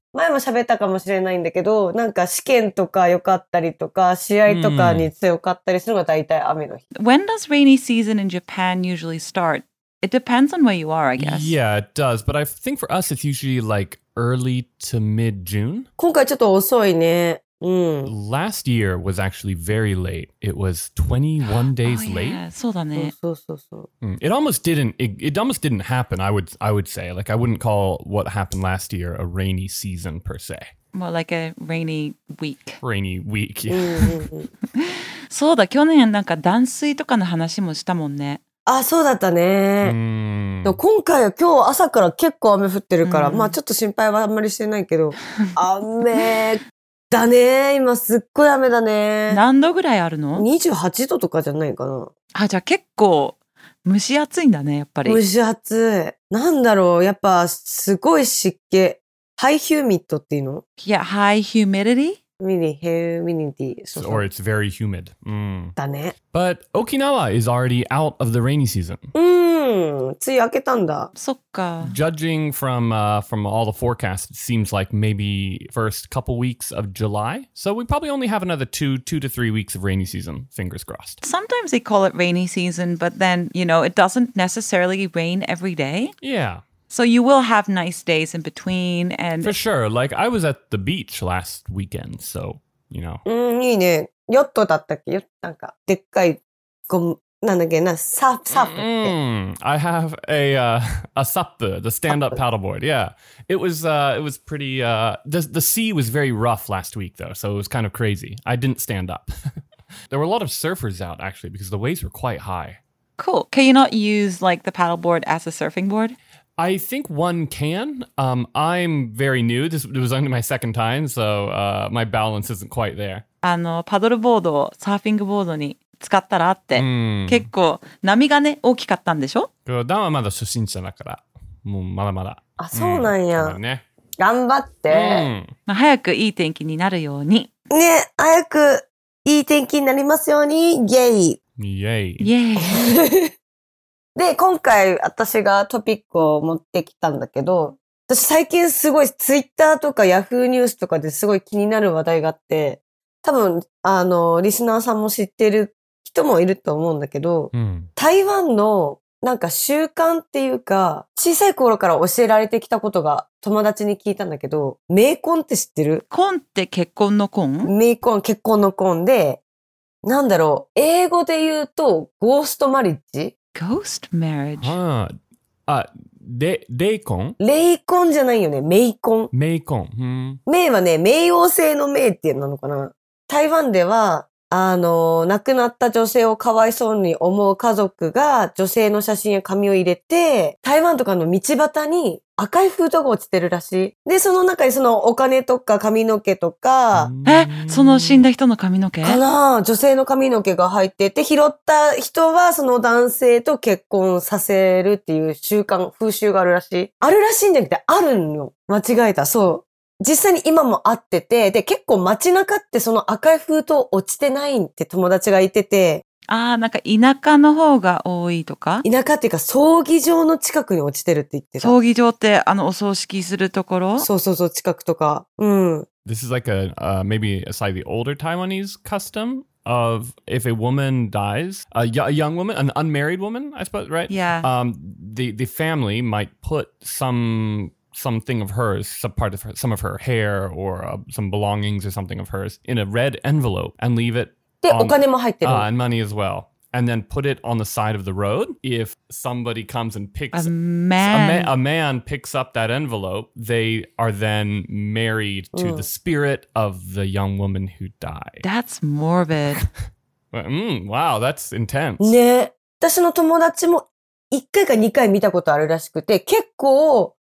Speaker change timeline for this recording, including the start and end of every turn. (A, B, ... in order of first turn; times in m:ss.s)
0:00.1-0:06.8 A
0:04.4-0:05.1 B
0:07.0-0:11.6 C
0:11.2-0:15.9 B
0:16.0-0:18.1 A
0:18.0-0:22.4 B
0:21.8-0:23.1 C
0:23.0-0:23.9 A
0:24.0-0:30.7 B
0:30.9-0:32.8 C
0:32.8-0:34.2 B
0:33.7-0:34.5 A
0:34.8-0:38.4 C
0:38.7-0:40.0 A
0:39.8-0:40.8 B
0:40.6-0:49.4 A
0:43.0-0:43.6 C
0:49.3-0:50.5 C
0:50.4-0:52.1 A
0:52.3-0:55.2 C
0:55.0-1:00.6 A
1:00.8-1:02.2 C
1:02.4-1:04.3 A
1:04.0-1:05.8 B
1:05.8-1:06.1 A
1:06.3-1:09.1 B
1:09.1-1:11.1 A
1:11.1-1:11.9 C
1:11.8-1:21.2 B
1:21.2-1:26.1 C
1:26.2-1:26.6 B
1:26.9-1:29.5 C
1:29.4-1:33.2 B
1:33.2-1:39.1 A
1:38.5-1:49.3 B
1:42.1-1:42.4 A
1:50.1-1:52.8 B
1:53.2-1:56.2 C
1:56.6-2:03.2 B
2:03.4-2:09.5 C
2:06.7-2:07.5 B
2:09.6-2:13.8 B
2:12.6-2:13.6 A
2:14.2-2:15.3 A
2:14.9-2:15.5 B
2:15.7-2:17.5 C
2:17.7-2:21.4 A
2:21.6-2:22.3 B
2:22.2-2:22.9 C
2:22.6-2:23.3 A
2:24.2-2:46.0 A
2:37.5-2:37.9 B
2:46.1-2:47.7 C
2:47.6-2:49.4 A
2:50.0-2:53.3 A
2:53.5-2:54.8 C
2:54.6-2:55.1 B
2:55.7-2:57.4 B
2:57.4-2:59.3 A
2:59.3-3:00.4 B
3:00.5-3:17.1 A
3:16.9-3:18.2 B
3:17.2-3:19.2 C
3:19.0-3:36.0 A
3:36.3-3:38.8 C
3:38.8-3:41.8 A
3:41.6-3:44.1 C
3:44.0-3:45.9 A
3:46.1-4:18.4 B
3:54.1-3:54.5 C
4:04.6-4:05.7 A
4:10.3-4:11.5 C
4:15.5-4:15.9 A
4:18.4-4:19.6 C
4:20.3-4:22.1 B
4:22.0-4:27.2 A